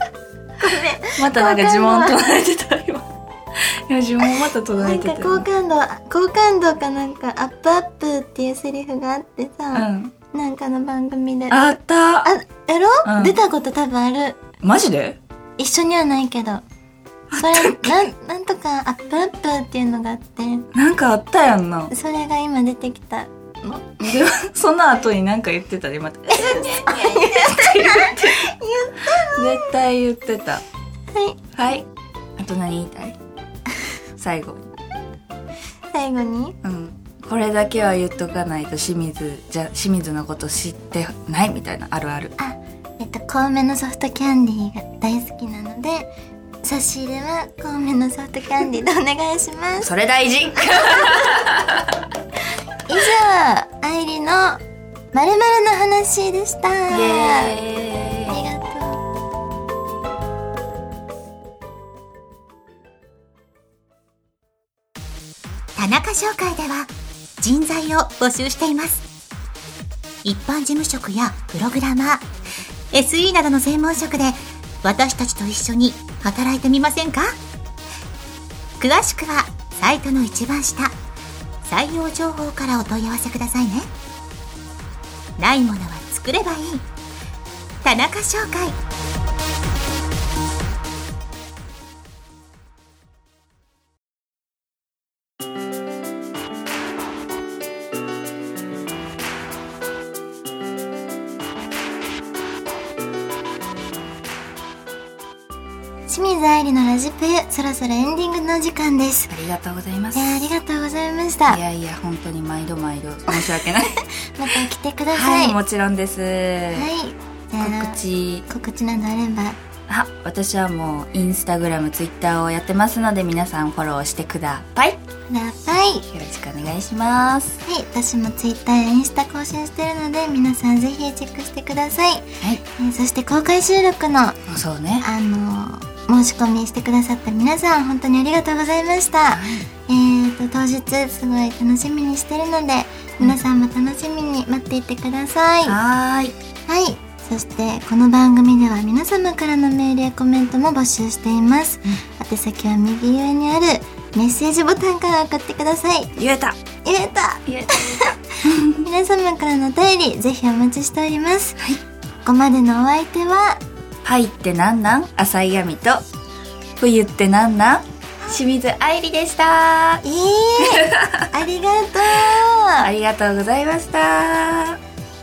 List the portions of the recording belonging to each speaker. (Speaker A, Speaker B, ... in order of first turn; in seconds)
Speaker A: 0.6-2.2, 4.8-11.6, 12.2-14.4, 15.6-16.6, 17.4-20.7, 21.9-24.1, 26.3-29.7, 31.1-31.5, 35.9-36.6, 42.4-46.1, 46.6-49.9, 52.9-54.6, 55.1-57.6, 58.3-59.0, 106.1-109.3, 110.2-111.6, 114.3-115.6, 116.7-119.6, 125.3-126.1, 127.6-134.4, 135.0-145.8, 146.7-156.1, 156.8-161.6, 162.2-163.6, 170.0-172.9
Speaker B: 1.2-5.5, 9.7-10.1, 11.5-12.3, 13.1-13.4, 14.6-15.2, 17.3-18.0, 20.7-21.9, 24.0-28.5, 29.3-30.6, 31.6-31.9, 32.4-33.2, 34.2-34.7, 36.6-42.3, 49.8-51.9, 56.9-58.4, 109.3-110.4, 111.5-114.0, 115.1-116.9, 117.6-118.5, 119.9-125.0, 126.1-127.6, 134.5-135.1, 139.3-139.7, 145.7-146.3, 156.2-156.6, 157.6-158.8, 164.1-166.0, 166.8-170.0, 170.8-171.3, 172.8-174.8
Speaker C: 65.8-69.0, 70.2-72.2, 72.9-77.4, 78.8-80.9, 81.7-83.9, 85.4-86.9, 87.8-88.8